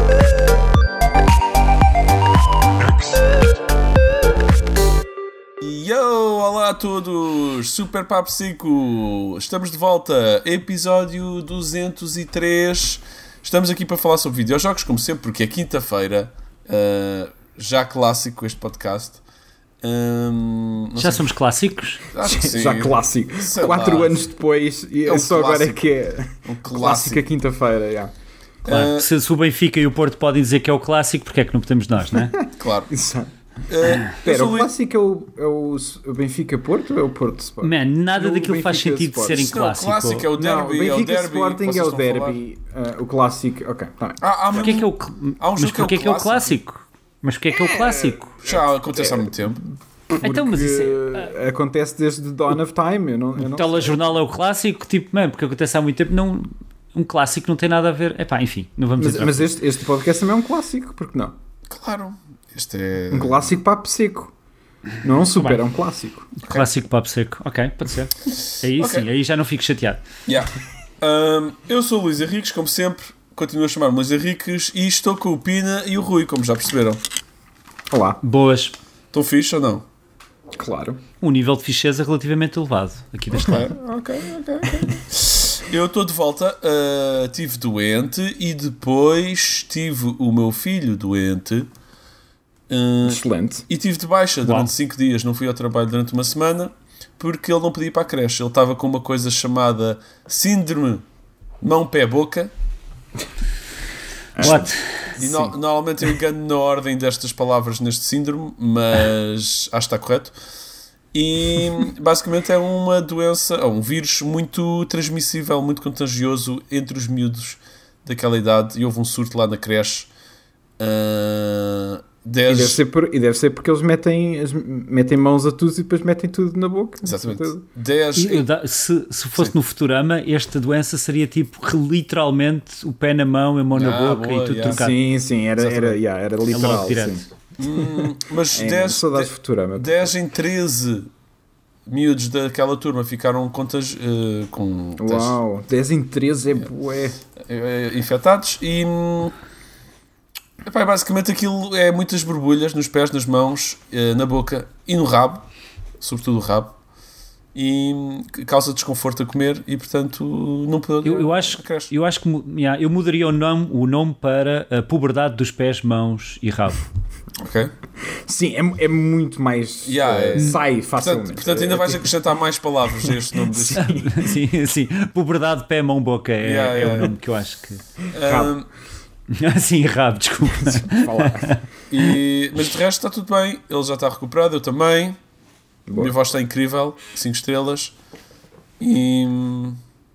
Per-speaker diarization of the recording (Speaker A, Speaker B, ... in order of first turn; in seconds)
Speaker A: 5.6-19.2, 19.8-21.3, 22.1-24.2, 25.1-25.8, 26.5-27.2, 28.6-29.1, 32.6-32.9, 33.7-34.7, 39.3-42.4, 44.2-46.6, 48.4-49.6, 61.7-63.5, 68.3-69.1, 70.3-77.0, 79.1-79.8, 83.4-91.7, 92.7-101.0, 101.6-102.5, 105.2-110.3, 111.1-120.1, 120.8-122.8, 127.0-128.4, 133.7-134.9, 135.6-136.0, 137.6-141.1, 141.9-145.4, 147.4-149.3, 150.6-155.4, 156.0-156.8, 157.6-161.9, 167.4-167.7, 169.8-173.9, 176.4-177.1, 178.1-178.7, 181.9-185.2, 185.9-187.9, 188.8-189.8
Speaker B: 21.0-22.0, 28.7-32.4, 37.6-40.3, 44.5-48.3, 50.2-51.3, 53.4-59.5, 66.4-70.0, 78.2-78.8, 81.2-83.7, 94.4-94.7, 104.4-105.2, 128.2-134.9, 136.5-137.2, 161.0-166.8, 173.7-177.8, 179.3-182.1
Speaker C: 22.2-28.1, 32.1-33.3, 34.0-39.5, 40.3-44.2, 47.5-49.6, 50.1-54.0, 59.0-61.4, 63.1-64.3, 65.0-66.3, 77.9-78.2, 80.5-81.0, 84.6-85.0, 93.0-93.7, 104.4-105.5, 122.5-127.6, 134.7-137.2, 138.5-140.1, 145.0-147.2, 168.1-172.1, 173.0-174.3, 178.2-178.5, 180.6-181.6, 185.9-186.1